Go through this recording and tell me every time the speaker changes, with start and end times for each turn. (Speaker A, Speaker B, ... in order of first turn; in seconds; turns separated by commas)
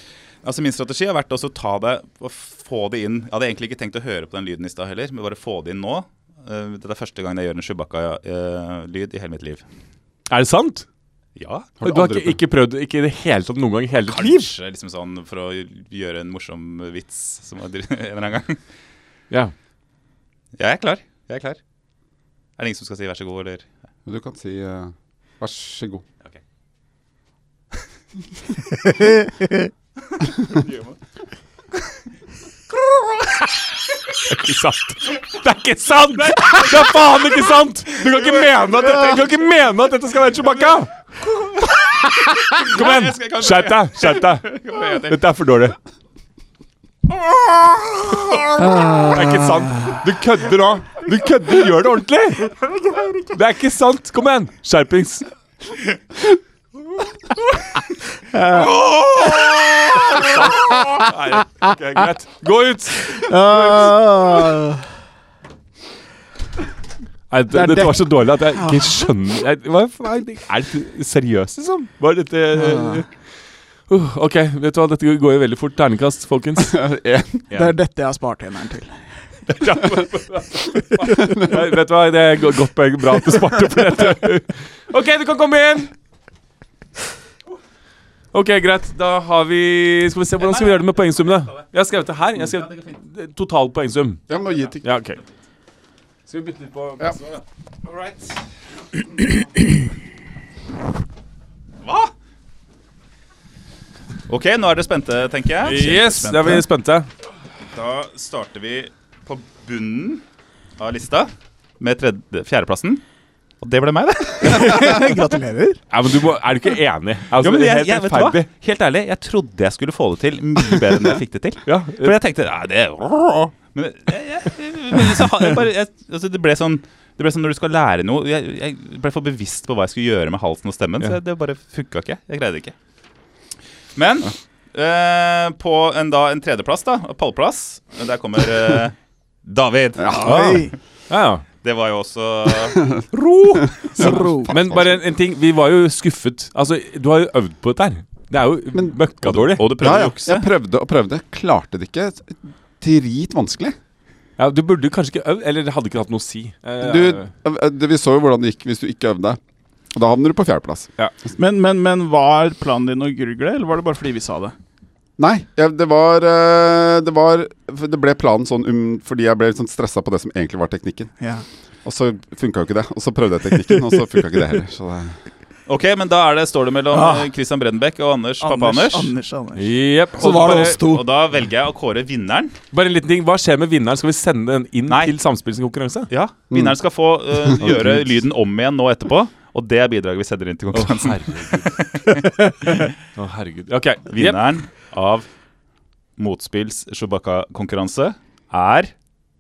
Speaker A: 0.4-9.6, Speaker B: 10.3-10.9, Speaker A: 11.4-11.7, Speaker C: 11.8-12.4, Speaker B: 11.8-14.5, Speaker A: 14.1-18.6, Speaker A: 20.6-21.6, Speaker A: 22.6-23.7, Speaker C: 24.1-26.0, Speaker A: 30.1-31.0, Speaker A: 32.8-33.3, Speaker B: 34.2-40.9, Speaker A: 36.4-36.9, Speaker A: 38.1-39.2, Speaker B: 42.0-45.8, Speaker A: 42.5-45.2, Speaker A: 47.5-48.4, Speaker D: 48.7-49.1, Speaker B: 49.0-52.6, Speaker B: 53.3-55.2, Speaker D: 58.3-58.7, Speaker A: 58.5-59.9, Speaker B: 59.9-63.9, Speaker D: 63.1-64.8, Speaker B: 67.3-73.1, Speaker D: 67.5-69.1, Speaker D: 72.5-73.0, Speaker B: 73.9-76.8, Speaker C: 76.6-77.4, Speaker D: 77.5-79.0, Speaker B: 79.6-85.9, Speaker C: 81.2-81.6, Speaker B: 88.3-94.2, Speaker C: 94.3-94.9, Speaker B: 94.8-95.2, Speaker B: 96.3-97.2, Speaker A: 97.8-98.4, Speaker A: 101.8-102.1, Speaker A: 104.3-106.7, Speaker B: 105.6-107.1, Speaker A: 107.7-110.2, Speaker A: 110.8-113.0, Speaker A: 113.6-115.1, Speaker D: 114.4-115.8, Speaker B: 115.9-118.5, Speaker A: 117.4-132.7, Speaker B: 121.7-122.2, Speaker A: 134.0-138.9, Speaker A: 139.4-140.6, Speaker C: 140.0-140.5, Speaker D: 140.1-140.8, Speaker B: 141.1-141.4, Speaker A: 141.6-142.9, Speaker B: 143.1-150.0, Speaker C: 143.9-145.0, Speaker D: 144.0-144.5, Speaker A: 149.2-150.5, Speaker C: 149.6-153.8, Speaker B: 154.4-157.3, Speaker C: 156.8-159.4, Speaker C: 159.9-160.9, Speaker D: 161.4-164.6, Speaker C: 165.2-171.1, Speaker D: 171.2-171.4, Speaker C: 171.8-175.1, Speaker A: 175.7-179.1, Speaker D: 176.9-177.3, Speaker D: 178.4-181.1, Speaker B: 179.6-180.8, Speaker A: 180.2-182.6, Speaker B: 182.7-186.1, Speaker A: 184.9-185.1, Speaker A: 186.1-192.2, Speaker B: 190.7-191.8, Speaker B: 193.2-194.4, Speaker A: 194.1-195.3, Speaker A: 196.2-198.9